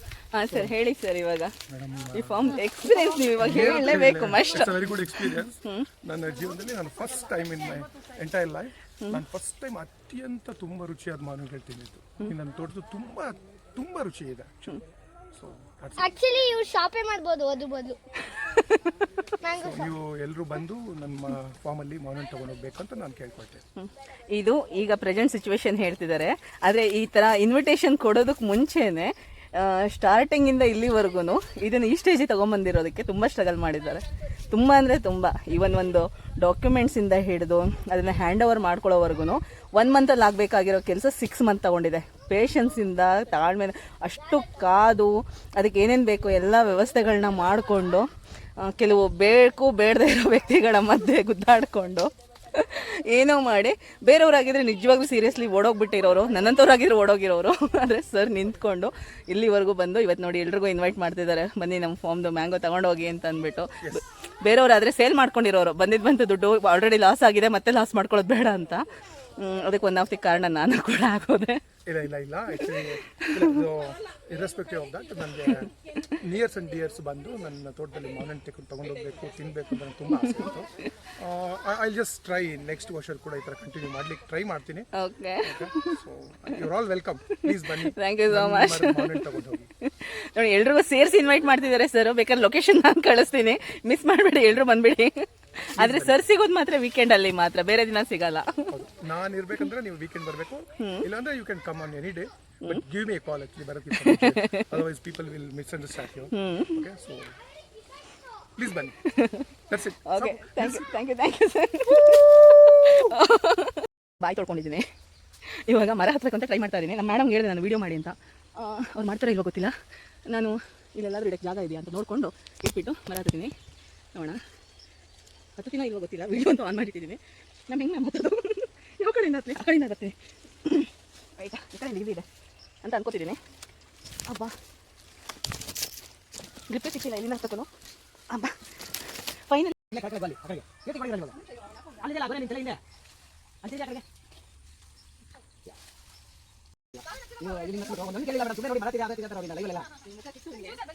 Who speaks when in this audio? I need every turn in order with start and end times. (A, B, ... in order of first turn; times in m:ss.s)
0:00.3-0:01.5 A
0:01.7-0:02.6 B
0:02.1-0:05.9 A
0:03.3-0:16.2 B
0:16.0-0:18.0 C
0:18.4-0:18.9 A
0:19.4-0:19.8 C
0:19.6-0:23.6 B
0:23.8-0:48.0 A
0:48.6-1:08.8 A
1:09.4-1:11.6 A
1:11.8-1:24.9 B
1:12.8-1:13.5 A
1:25.0-1:26.0 A
1:25.4-1:29.7 B
1:27.4-1:29.2 A
1:29.8-1:35.2 A
1:35.7-1:36.3 B
1:35.8-1:38.7 A
1:38.7-1:47.3 B
1:40.8-1:41.1 A
1:44.0-1:44.7 A
1:46.3-1:46.8 A
1:48.6-1:49.1 B
1:49.1-1:49.4 A
1:49.7-1:50.9 B
1:50.0-1:54.8 A
1:55.7-1:59.7 A
2:00.3-2:03.5 A
2:04.1-2:04.4 A
2:05.6-2:12.2 A
2:12.8-2:13.4 A
2:14.3-2:14.6 A
2:16.7-2:17.7 A
2:18.3-2:18.6 A
2:19.5-2:21.4 A
2:22.0-2:22.8 A
2:23.6-2:24.0 A
2:27.4-2:29.9 A